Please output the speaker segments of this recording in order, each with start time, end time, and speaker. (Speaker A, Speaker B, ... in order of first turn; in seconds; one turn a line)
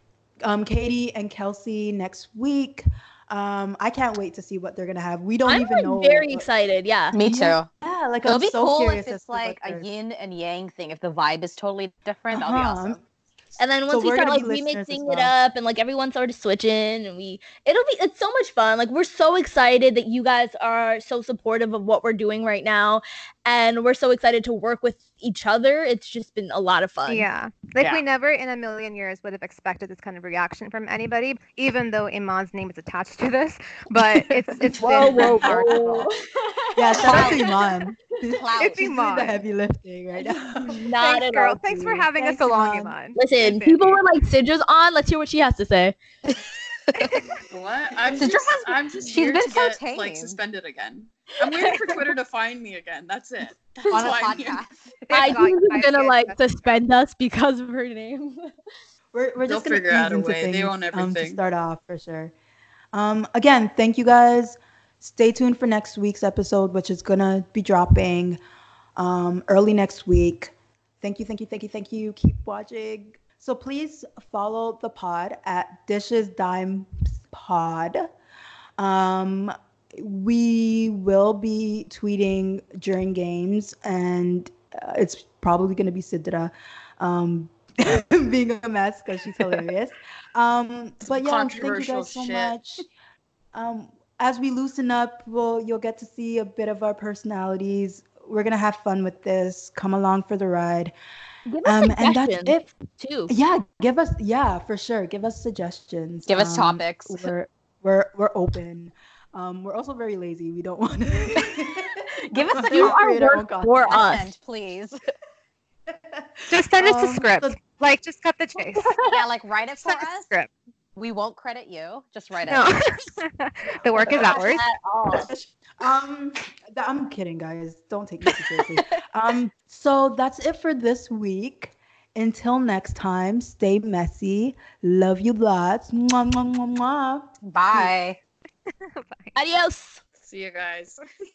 Speaker A: 0.4-6.5
Speaker B: 5.5-7.2
Speaker C: 7.1-7.7
Speaker A: 7.2-9.9
Speaker C: 8.3-13.0
Speaker A: 12.3-13.0
Speaker B: 13.6-27.3
Speaker A: 13.9-15.3
Speaker D: 27.1-36.1
Speaker B: 34.8-37.5
Speaker A: 35.2-35.8
Speaker A: 36.8-40.9
Speaker C: 37.0-37.5
Speaker C: 38.3-38.8
Speaker D: 38.6-39.4
Speaker B: 40.6-41.6
Speaker D: 41.0-44.0
Speaker A: 41.7-43.0
Speaker B: 43.2-46.0
Speaker C: 46.9-47.3
Speaker E: 47.5-54.6
Speaker C: 48.2-50.4
Speaker C: 51.4-51.8
Speaker C: 53.7-55.4
Speaker D: 55.1-56.8
Speaker B: 55.1-58.5
Speaker A: 59.1-62.3
Speaker E: 59.5-61.4
Speaker A: 62.9-68.4
Speaker A: 69.0-78.1
Speaker A: 78.8-92.8
Speaker E: 91.0-92.6
Speaker A: 93.5-100.9
Speaker B: 101.5-103.3
Speaker A: 101.7-102.7
Speaker A: 103.3-114.0
Speaker C: 106.3-107.3
Speaker C: 112.3-113.0
Speaker B: 112.7-114.3
Speaker C: 113.9-115.0
Speaker A: 115.9-117.6
Speaker D: 116.5-119.0
Speaker C: 119.0-120.3
Speaker D: 119.9-120.5
Speaker C: 121.0-122.7
Speaker D: 122.5-124.6
Speaker C: 124.0-125.3
Speaker A: 124.0-137.3
Speaker B: 124.3-124.9
Speaker C: 137.5-138.2
Speaker D: 138.8-139.3
Speaker B: 139.3-140.0
Speaker E: 140.2-141.0